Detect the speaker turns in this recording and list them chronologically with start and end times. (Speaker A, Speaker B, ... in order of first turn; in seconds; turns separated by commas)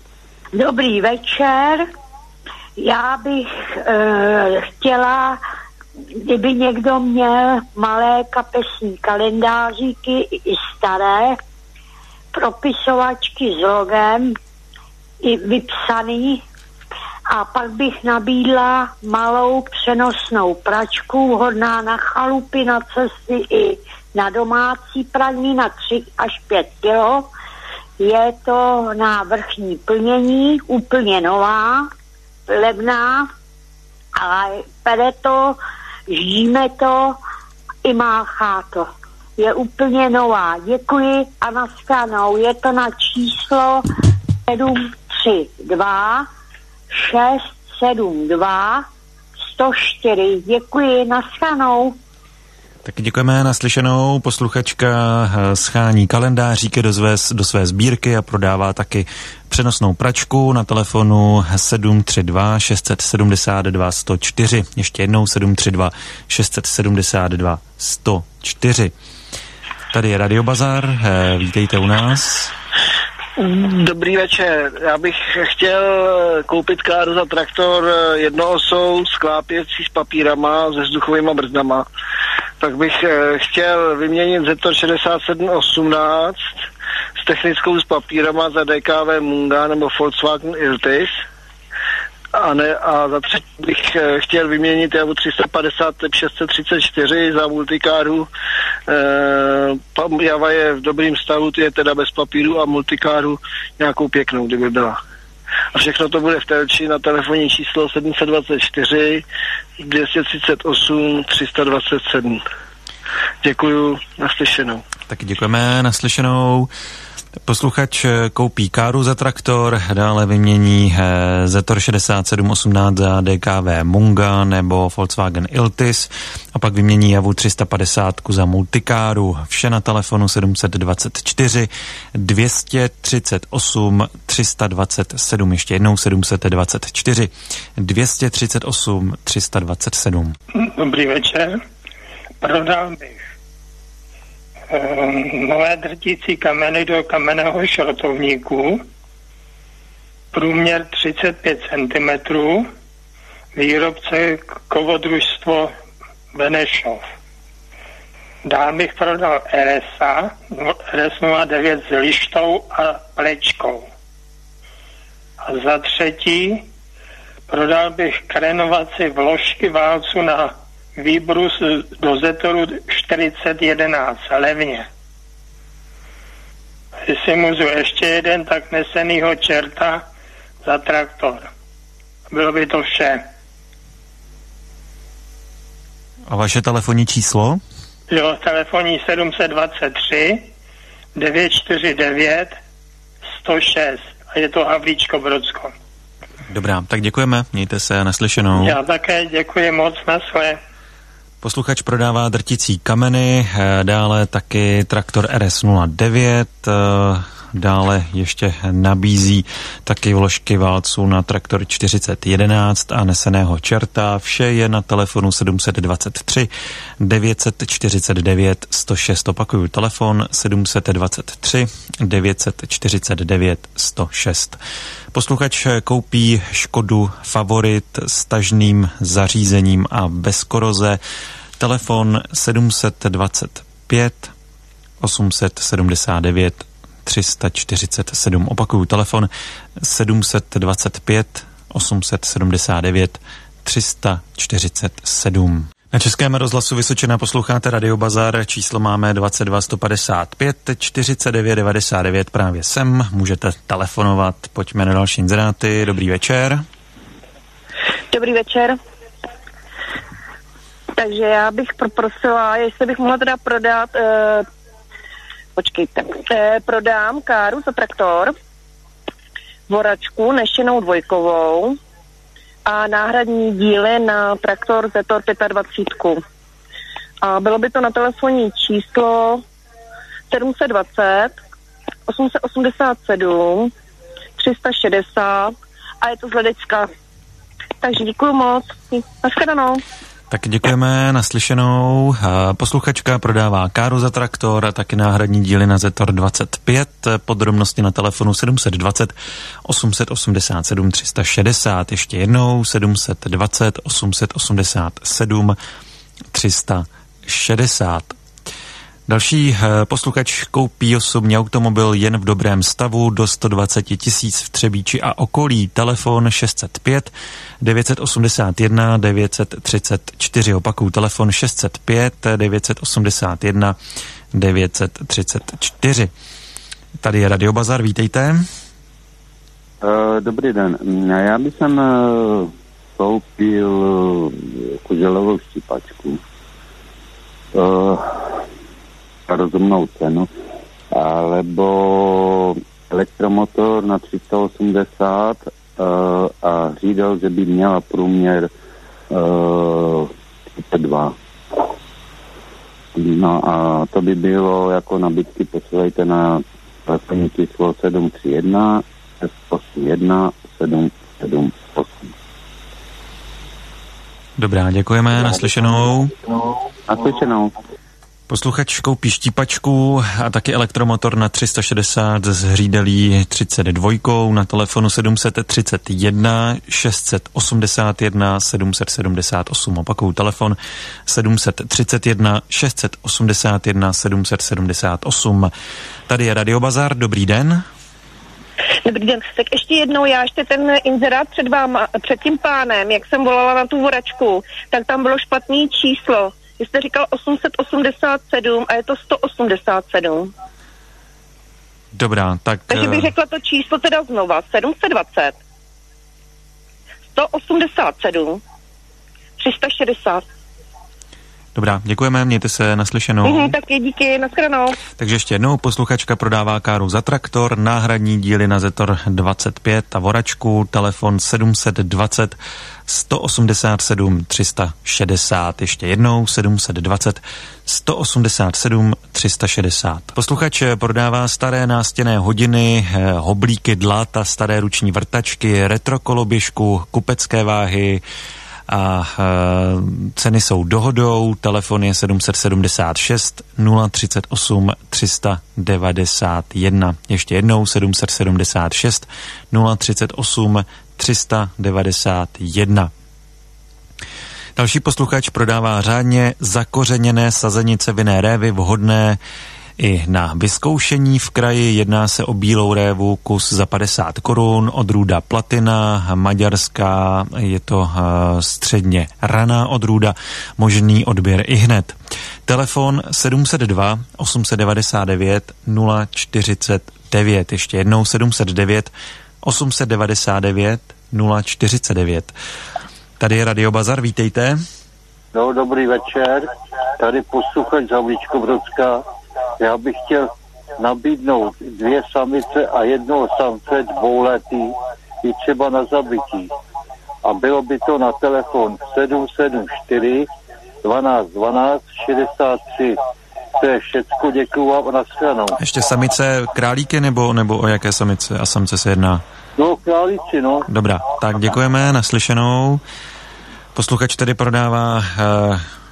Speaker A: 0.5-1.8, Speaker A: 2.8-5.4, Speaker A: 6.2-11.4, Speaker A: 12.3-14.3, Speaker A: 15.2-16.4, Speaker A: 17.3-27.3, Speaker A: 28.0-31.9, Speaker A: 32.5-33.3, Speaker A: 34.2-37.2, Speaker A: 37.8-43.8, Speaker A: 44.5-46.2, Speaker A: 46.9-48.8, Speaker A: 49.5-52.0, Speaker B: 52.8-68.9, Speaker B: 69.9-72.5, Speaker C: 73.4-81.9, Speaker C: 82.6-86.5, Speaker C: 87.2-91.2, Speaker C: 92.3-98.3, Speaker C: 98.9-105.0, Speaker C: 105.7-109.2, Speaker C: 109.8-112.4, Speaker C: 113.4-114.8, Speaker B: 115.1-116.7, Speaker B: 117.5-140.3, Speaker D: 140.6-141.5, Speaker D: 142.4-143.2, Speaker D: 144.7-148.8, Speaker D: 150.3-152.7, Speaker D: 153.5-155.7, Speaker D: 156.3-157.0, Speaker D: 158.4-163.8, Speaker D: 165.4-166.6, Speaker D: 167.5-174.9, Speaker D: 177.1-180.0, Speaker D: 180.6-181.5, Speaker D: 182.3-183.2, Speaker B: 186.3-187.6, Speaker D: 188.1-190.5, Speaker D: 191.2-192.5, Speaker D: 193.4-195.7, Speaker B: 196.5-198.8, Speaker D: 198.6-200.6, Speaker B: 201.4-216.5, Speaker B: 217.0-224.6, Speaker B: 225.1-231.0, Speaker B: 231.6-234.3, Speaker B: 235.0-239.3, Speaker B: 239.8-256.6, Speaker E: 258.1-258.8, Speaker E: 261.0-264.5, Speaker E: 265.6-268.3, Speaker E: 269.7-271.8, Speaker E: 272.6-276.2, Speaker E: 277.2-279.4, Speaker E: 280.3-281.4, Speaker E: 282.1-283.7, Speaker E: 284.4-286.9, Speaker E: 287.8-289.8, Speaker B: 290.3-299.1, Speaker B: 299.6-305.6, Speaker B: 306.3-308.1, Speaker B: 309.1-323.8, Speaker B: 324.3-326.1, Speaker B: 327.0-328.4, Speaker F: 329.8-336.2, Speaker F: 337.5-338.4, Speaker F: 339.3-340.3, Speaker F: 340.9-348.5, Speaker F: 349.1-351.1, Speaker F: 352.9-362.1, Speaker B: 364.4-366.1, Speaker F: 366.9-367.5, Speaker B: 368.3-385.5, Speaker B: 386.1-387.6, Speaker E: 388.9-400.3, Speaker B: 402.0-403.1, Speaker E: 402.7-405.4, Speaker E: 407.1-408.4, Speaker E: 409.4-410.2, Speaker B: 411.6-413.6, Speaker E: 413.2-414.8, Speaker B: 415.0-438.0, Speaker B: 438.7-452.9, Speaker B: 454.6-459.2, Speaker B: 459.8-471.9, Speaker B: 472.5-478.9, Speaker B: 479.4-482.3, Speaker B: 483.2-484.6, Speaker G: 485.3-489.0, Speaker G: 489.6-496.5, Speaker G: 497.2-500.3, Speaker G: 500.8-503.0, Speaker G: 503.6-505.6, Speaker B: 505.6-509.2, Speaker G: 509.6-510.7, Speaker B: 510.7-512.8, Speaker B: 513.8-515.6